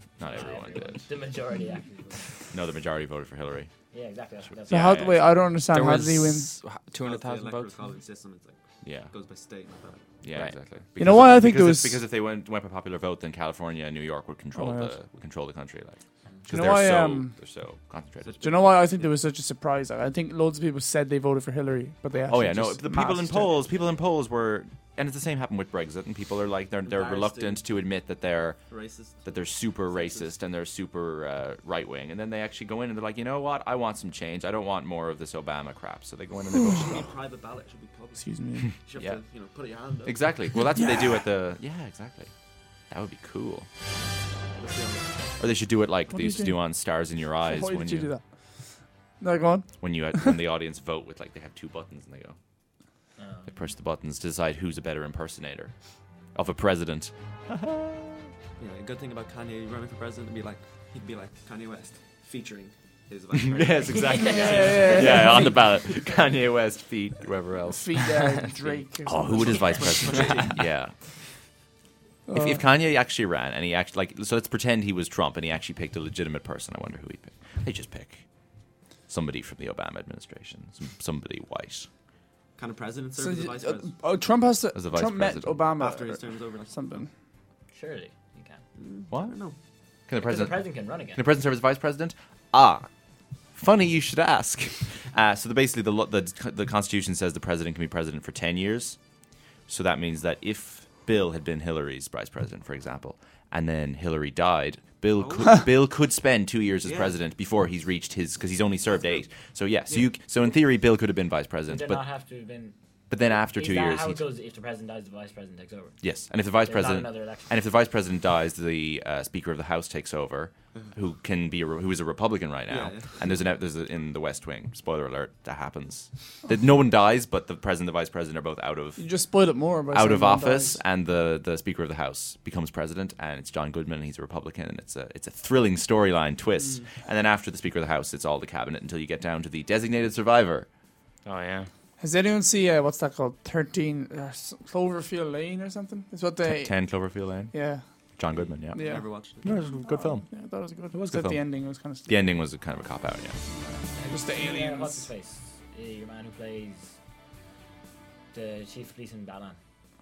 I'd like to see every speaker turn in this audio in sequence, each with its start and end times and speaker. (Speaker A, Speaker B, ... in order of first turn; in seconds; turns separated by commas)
Speaker A: 0.2-1.0, Speaker B: 0.3-2.3, Speaker A: 2.5-3.7, Speaker B: 3.9-5.3, Speaker A: 4.7-5.1, Speaker C: 4.7-6.5, Speaker D: 5.7-7.9, Speaker E: 7.0-10.1, Speaker A: 8.8-9.1, Speaker A: 10.2-18.4, Speaker C: 11.0-12.0, Speaker C: 14.6-14.9, Speaker C: 16.5-17.4, Speaker E: 18.2-18.9, Speaker C: 18.4-23.6, Speaker A: 22.3-28.6, Speaker E: 26.9-27.7, Speaker E: 28.7-30.4, Speaker A: 29.2-37.1, Speaker C: 36.5-37.0, Speaker E: 36.7-40.5, Speaker C: 38.2-38.8, Speaker A: 40.0-42.3, Speaker C: 40.8-41.2, Speaker A: 42.9-43.7, Speaker E: 44.5-45.1, Speaker A: 45.4-48.1, Speaker C: 46.1-46.6, Speaker C: 47.4-48.2, Speaker C: 49.2-50.4, Speaker A: 49.8-52.4, Speaker B: 53.2-53.7, Speaker A: 53.5-55.7, Speaker A: 56.4-58.3, Speaker E: 58.6-64.9, Speaker A: 63.3-68.0, Speaker B: 63.9-65.1, Speaker C: 64.2-65.6, Speaker C: 67.7-70.2, Speaker D: 68.2-68.8, Speaker A: 69.1-70.9, Speaker E: 69.4-70.7, Speaker C: 72.3-72.6, Speaker A: 72.3-78.2, Speaker A: 79.1-81.9, Speaker E: 82.6-84.0, Speaker C: 83.2-87.1, Speaker A: 84.8-85.7, Speaker E: 85.8-87.0, Speaker B: 87.7-88.6, Speaker E: 88.8-89.6, Speaker A: 89.1-89.4, Speaker A: 90.1-92.9, Speaker B: 90.2-91.3, Speaker A: 93.5-99.0, Speaker A: 99.7-112.0, Speaker E: 105.2-105.6, Speaker E: 106.8-107.2, Speaker B: 111.7-112.8, Speaker A: 113.1-114.3, Speaker B: 113.4-115.9, Speaker A: 116.0-129.1, Speaker B: 116.6-117.5, Speaker E: 122.7-123.4, Speaker C: 129.0-130.8, Speaker A: 129.9-140.7, Speaker E: 136.6-136.9, Speaker D: 141.2-141.7, Speaker C: 142.0-147.8, Speaker A: 146.4-147.6, Speaker A: 148.2-150.3, Speaker E: 148.3-149.7, Speaker C: 148.8-149.1, Speaker C: 149.8-152.2, Speaker A: 150.9-151.4, Speaker A: 152.1-153.4, Speaker B: 153.9-156.9, Speaker C: 154.1-155.1, Speaker B: 158.3-159.6